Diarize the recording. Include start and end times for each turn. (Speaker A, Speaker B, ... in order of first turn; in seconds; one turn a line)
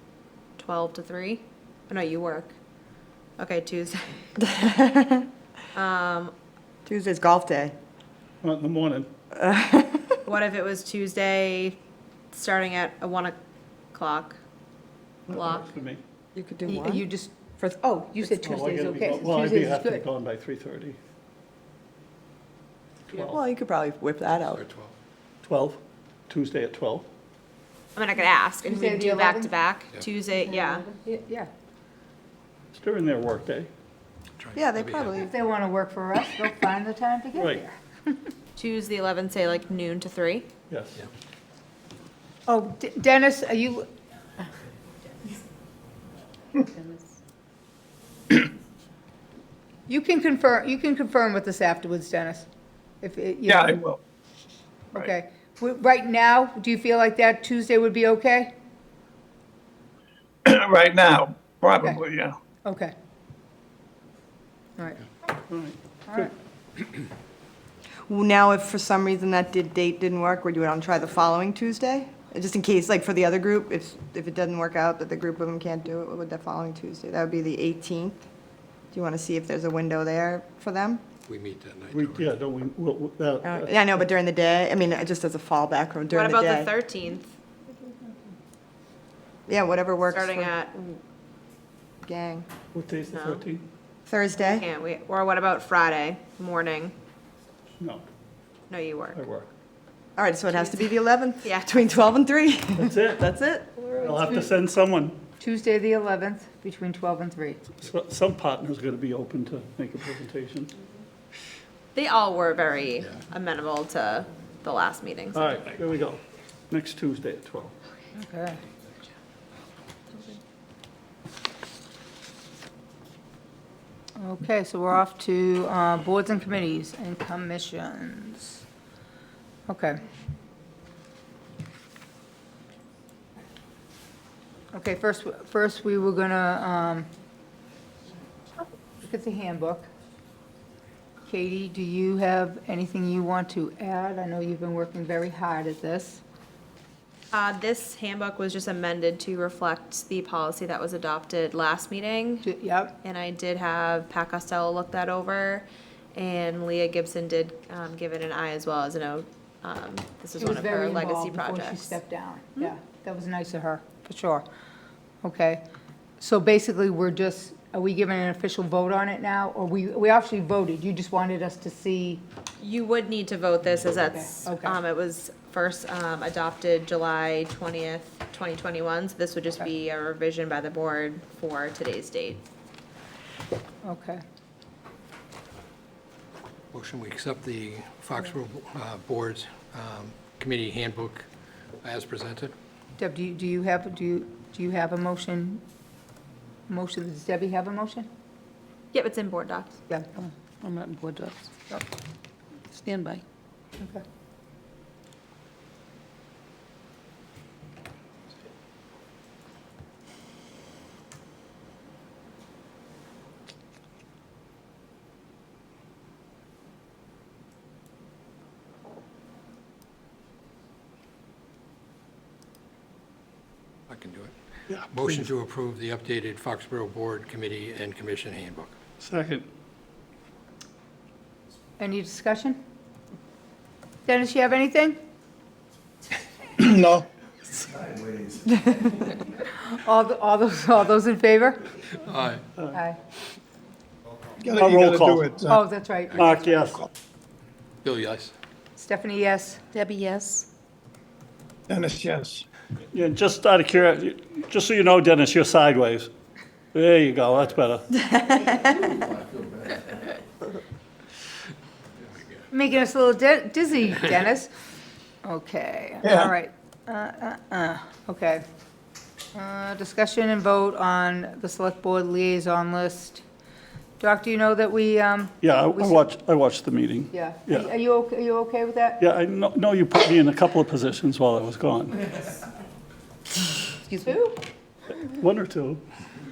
Speaker A: 0.6-2.5
Speaker A: 3.4-4.3
Speaker B: 4.4-5.3
Speaker A: 5.7-6.3
Speaker B: 6.8-7.8
Speaker C: 8.4-9.1
Speaker B: 9.3-10.2
Speaker A: 10.2-11.8
Speaker A: 12.3-13.4
Speaker A: 13.9-14.4
Speaker C: 15.3-16.0
Speaker A: 15.3-15.7
Speaker B: 16.3-17.1
Speaker D: 16.7-20.1
Speaker C: 18.4-21.0
Speaker C: 23.1-23.4
Speaker B: 23.1-24.6
Speaker E: 24.5-24.9
Speaker C: 25.4-27.1
Speaker A: 27.9-30.8
Speaker D: 28.6-29.5
Speaker D: 30.3-31.5
Speaker C: 32.7-33.7
Speaker E: 34.4-35.3
Speaker B: 34.5-35.3
Speaker D: 35.2-38.3
Speaker C: 37.3-37.6
Speaker A: 38.5-40.5
Speaker C: 40.7-41.0
Speaker D: 42.5-43.9
Speaker D: 46.8-47.0
Speaker D: 49.9-52.5
Speaker D: 53.0-53.8
Speaker F: 53.5-54.0
Speaker D: 54.9-58.5
Speaker F: 60.4-62.4
Speaker D: 62.6-62.9
Speaker D: 64.8-65.0
Speaker C: 65.5-66.3
Speaker B: 68.1-78.3
Speaker B: 78.9-81.0
Speaker E: 81.3-82.3
Speaker C: 81.9-83.7
Speaker B: 83.4-86.7
Speaker A: 86.1-87.3
Speaker B: 89.5-90.5
Speaker A: 90.1-91.0
Speaker B: 92.0-92.5
Speaker C: 92.7-93.6
Speaker A: 93.1-93.4
Speaker B: 94.0-94.6
Speaker A: 94.5-96.9
Speaker C: 97.8-98.0
Speaker A: 98.7-99.2
Speaker C: 99.1-99.5
Speaker B: 100.2-103.0
Speaker A: 101.4-101.7
Speaker C: 102.8-105.2
Speaker D: 105.4-107.6
Speaker C: 107.8-110.7
Speaker A: 111.9-115.7
Speaker C: 115.3-117.7
Speaker D: 118.1-118.6
Speaker A: 120.1-120.4
Speaker D: 124.2-128.6
Speaker D: 129.7-130.0
Speaker D: 134.7-137.1
Speaker D: 139.0-139.9
Speaker D: 141.3-146.2
Speaker A: 147.3-152.5
Speaker D: 152.4-153.0
Speaker A: 153.0-162.0
Speaker D: 160.4-164.4
Speaker D: 165.2-165.6
Speaker D: 166.2-172.2
Speaker A: 172.6-182.4
Speaker D: 174.1-174.8
Speaker D: 183.8-184.2
Speaker E: 186.7-191.3
Speaker E: 191.8-192.5
Speaker D: 193.0-195.6
Speaker D: 196.7-198.1
Speaker A: 198.9-199.8
Speaker D: 199.9-200.3
Speaker G: 200.6-201.5
Speaker G: 202.7-203.2
Speaker E: 223.9-224.3
Speaker C: 224.7-225.2
Speaker E: 224.9-228.7
Speaker C: 229.0-229.4
Speaker D: 231.8-232.6
Speaker D: 234.0-235.0
Speaker F: 236.6-237.1
Speaker D: 239.3-241.7
Speaker E: 242.0-242.4
Speaker D: 242.7-243.0
Speaker F: 244.4-245.6
Speaker C: 244.5-245.2
Speaker D: 245.5-246.3
Speaker C: 246.2-246.8
Speaker E: 247.8-248.3
Speaker D: 248.8-249.7
Speaker G: 249.7-250.5
Speaker F: 251.7-252.4
Speaker C: 252.9-256.1
Speaker C: 256.7-257.9
Speaker B: 258.0-258.9
Speaker D: 262.5-264.5
Speaker D: 265.2-268.4
Speaker F: 266.0-266.3
Speaker D: 269.3-273.2
Speaker D: 274.0-276.1
Speaker C: 275.4-277.7
Speaker D: 277.1-279.0
Speaker C: 279.0-282.0
Speaker D: 283.7-284.4
Speaker C: 285.0-285.8